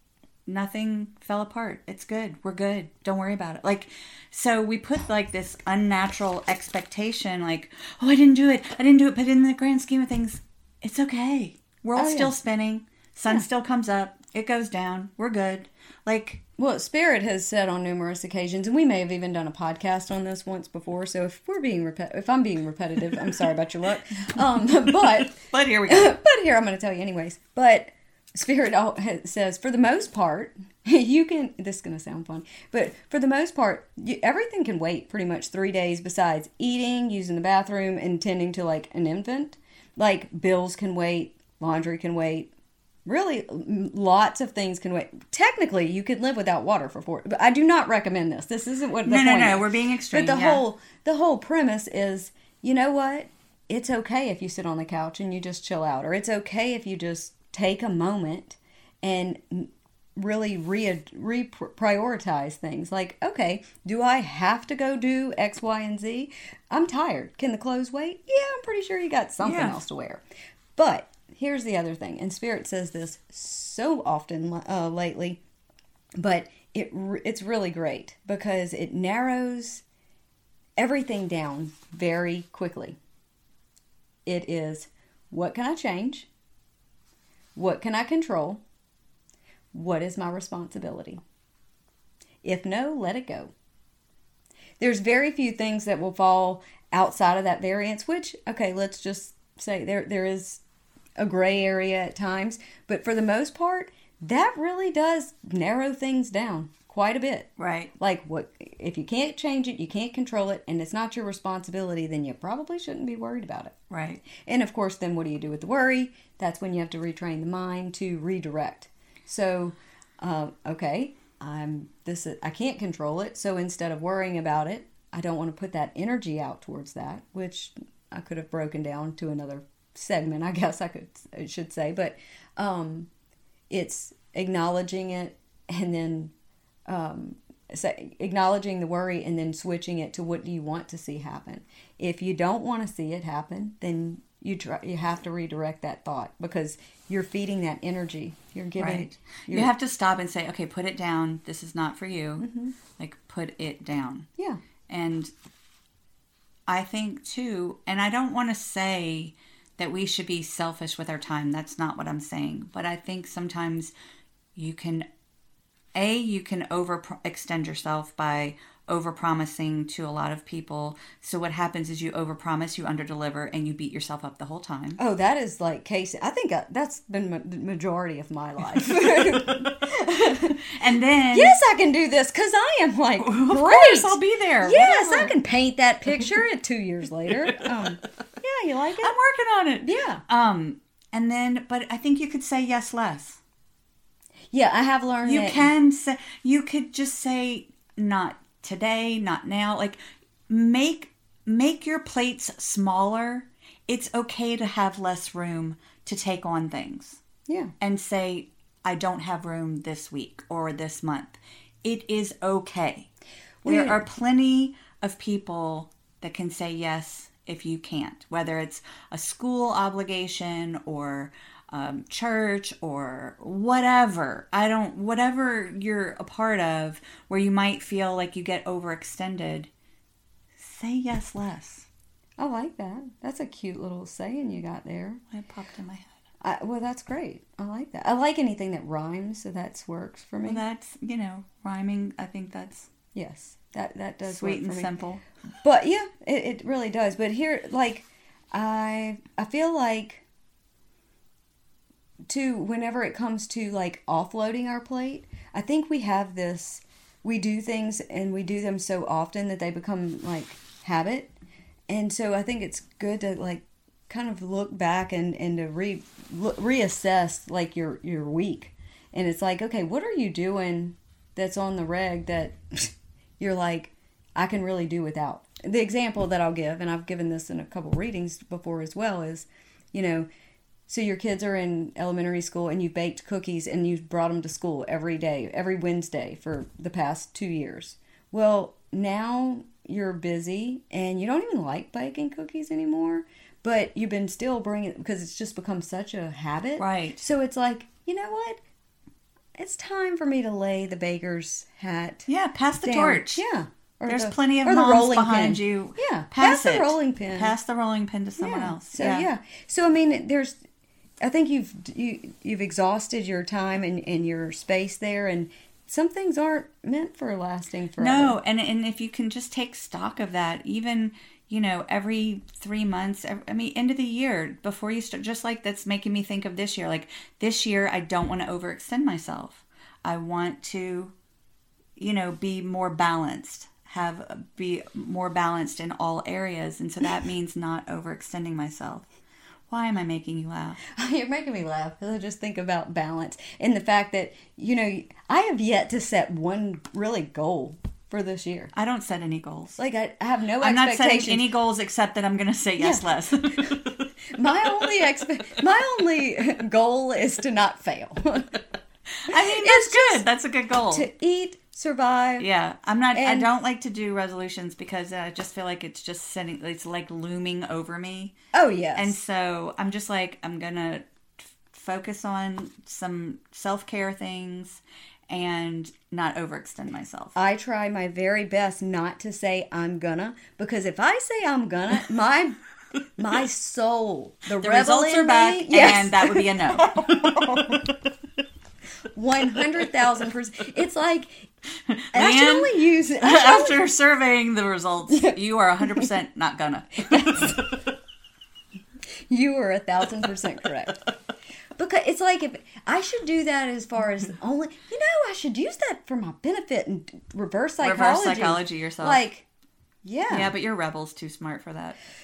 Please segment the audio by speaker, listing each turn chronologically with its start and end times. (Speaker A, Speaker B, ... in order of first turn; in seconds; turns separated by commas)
Speaker A: 0.5-16.4, Speaker B: 11.9-12.3, Speaker B: 16.6-42.5, Speaker A: 25.2-26.1, Speaker B: 43.0-70.2, Speaker A: 49.0-50.6, Speaker A: 69.4-69.8, Speaker B: 70.8-75.4, Speaker B: 76.2-79.8, Speaker B: 80.8-83.0, Speaker B: 84.2-86.3, Speaker B: 87.5-88.6, Speaker B: 89.7-91.2, Speaker B: 92.4-93.5, Speaker B: 94.8-100.6, Speaker B: 101.2-113.7, Speaker A: 107.6-107.9, Speaker A: 113.9-114.2, Speaker B: 114.3-133.1, Speaker B: 133.7-136.3, Speaker B: 136.9-149.7, Speaker A: 148.8-154.3, Speaker B: 152.4-152.7, Speaker A: 154.9-155.3, Speaker A: 156.7-163.9, Speaker A: 164.5-165.1, Speaker A: 165.9-175.0, Speaker B: 175.0-180.6, Speaker A: 180.5-181.6, Speaker B: 181.3-189.1, Speaker A: 183.2-185.3, Speaker A: 189.0-193.4, Speaker B: 189.8-190.2, Speaker B: 194.5-195.7, Speaker A: 195.2-207.2, Speaker B: 207.5-207.7, Speaker A: 207.8-213.1, Speaker B: 213.6-214.0, Speaker A: 213.6-229.7, Speaker A: 230.6-231.9, Speaker B: 232.4-235.2, Speaker A: 235.3-236.2, Speaker B: 236.4-240.6, Speaker A: 240.4-242.9, Speaker B: 243.1-244.9, Speaker A: 244.2-245.2, Speaker B: 245.6-250.2, Speaker B: 252.2-261.3, Speaker B: 261.9-280.3, Speaker B: 280.9-298.6, Speaker A: 296.8-297.2, Speaker B: 299.6-302.3, Speaker A: 302.3-303.4, Speaker B: 302.8-307.5, Speaker A: 304.1-309.3, Speaker B: 308.4-310.6, Speaker B: 311.2-318.4, Speaker A: 318.0-331.1, Speaker A: 332.0-339.1, Speaker A: 339.7-340.8, Speaker B: 340.9-348.7, Speaker A: 348.7-349.8, Speaker B: 349.8-351.5, Speaker A: 350.6-354.1, Speaker B: 352.8-353.1, Speaker B: 353.6-358.6, Speaker A: 359.2-361.1, Speaker B: 359.3-360.2, Speaker B: 360.9-362.5, Speaker A: 362.4-368.3, Speaker B: 363.1-363.5, Speaker B: 368.5-369.1, Speaker A: 368.9-377.4, Speaker B: 377.3-382.6, Speaker B: 383.2-387.9, Speaker A: 384.5-386.9, Speaker B: 389.1-391.5, Speaker A: 391.9-397.6, Speaker B: 392.1-393.8, Speaker B: 395.1-395.4, Speaker B: 397.1-397.7, Speaker B: 399.3-401.0, Speaker B: 401.8-409.4, Speaker A: 407.8-409.2, Speaker B: 410.0-410.5, Speaker A: 410.3-412.0